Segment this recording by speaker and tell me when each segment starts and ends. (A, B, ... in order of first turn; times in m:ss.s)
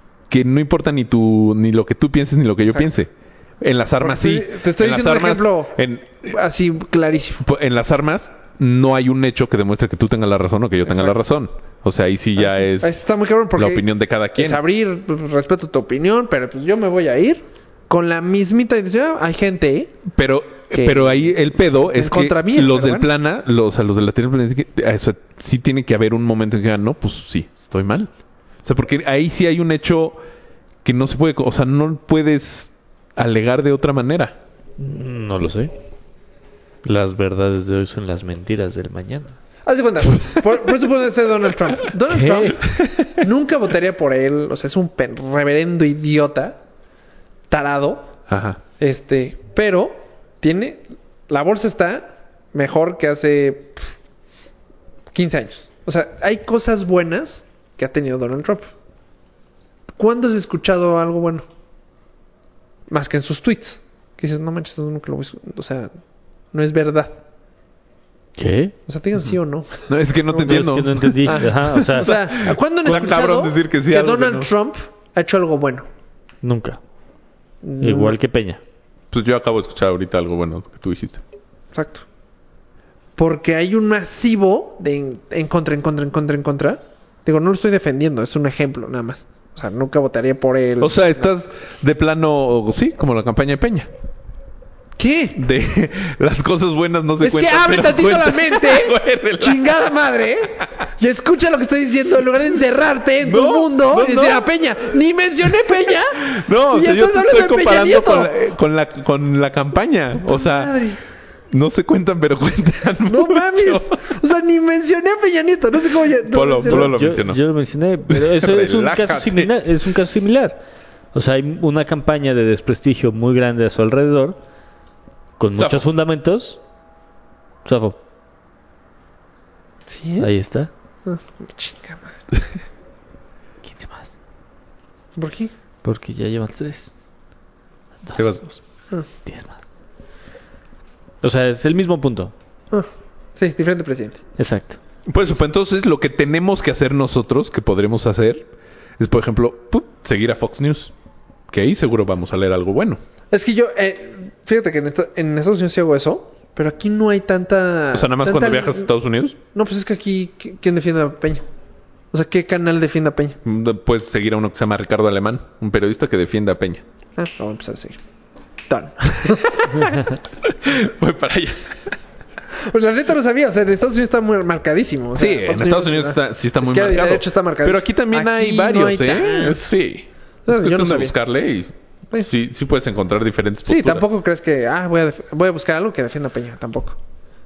0:00.3-0:03.1 A
0:03.6-0:06.3 A
0:04.0-0:05.7 B
0:06.2-0:07.4 B
0:07.4-0:13.0 A
0:10.9-0:11.2 B
0:12.4-0:13.8 B
0:13.6-0:14.6 A
0:14.4-0:20.0 B
0:20.1-0:28.1 A
0:20.8-0:21.3 B
0:21.9-0:23.1 B
0:28.6-0:30.2 A
0:30.8-0:34.4 A
0:34.8-0:35.7 C
0:36.8-0:39.4 C
0:39.7-0:46.6 B
0:42.1-0:42.6 C
0:47.5-0:48.1 B
0:48.3-0:48.6 A
0:48.8-0:53.9 B
0:55.1-0:58.7 B
1:00.0-1:01.4 B
1:02.9-1:05.9 B
1:06.5-1:07.2 B
1:08.4-1:08.7 C
1:08.9-1:09.9 B
1:09.9-1:14.5 A
1:10.3-1:12.1 C
1:11.3-1:15.9 B
1:16.4-1:16.8 C
1:17.6-1:18.2 B
1:17.8-1:18.6 C
1:19.1-1:21.2 A
1:21.7-1:22.0 B
1:23.2-1:31.3 B
1:30.8-1:33.9 A
1:35.0-1:35.4 B
1:35.4-1:39.9 A
1:37.2-1:46.2 B
1:43.2-1:44.5 A
1:45.7-1:50.8 A
1:46.7-1:48.3 B
1:50.2-1:51.0 B
1:51.5-1:54.1 A
1:53.1-1:57.0 B
1:56.2-1:57.4 A
1:56.7-2:00.6 C
1:58.1-1:59.5 A
2:01.1-2:04.4 C
2:05.4-2:06.6 C
2:05.5-2:05.8 A
2:07.6-2:08.0 C
2:09.9-2:10.3 B
2:10.2-2:10.7 C
2:11.0-2:12.2 B
2:13.6-2:14.1 C
2:15.2-2:15.5 B
2:15.8-2:16.9 C
2:18.2-2:18.6 A
2:19.2-2:19.6 C
2:21.2-2:22.3 C
2:22.7-2:24.2 B
2:24.4-2:24.8 C
2:25.1-2:28.5 A
2:29.0-2:30.9 A
2:31.5-2:33.0 A
2:33.3-2:38.8 B
2:37.9-2:39.4 A
2:39.5-2:41.4 B
2:42.1-2:43.4 B
2:43.4-2:46.8 A
2:47.2-2:48.0 B
2:48.7-2:50.0 B
2:49.2-2:51.8 A
2:52.7-2:59.7 B
2:55.2-3:04.1 A
3:00.5-3:01.1 B
3:03.7-3:07.0 B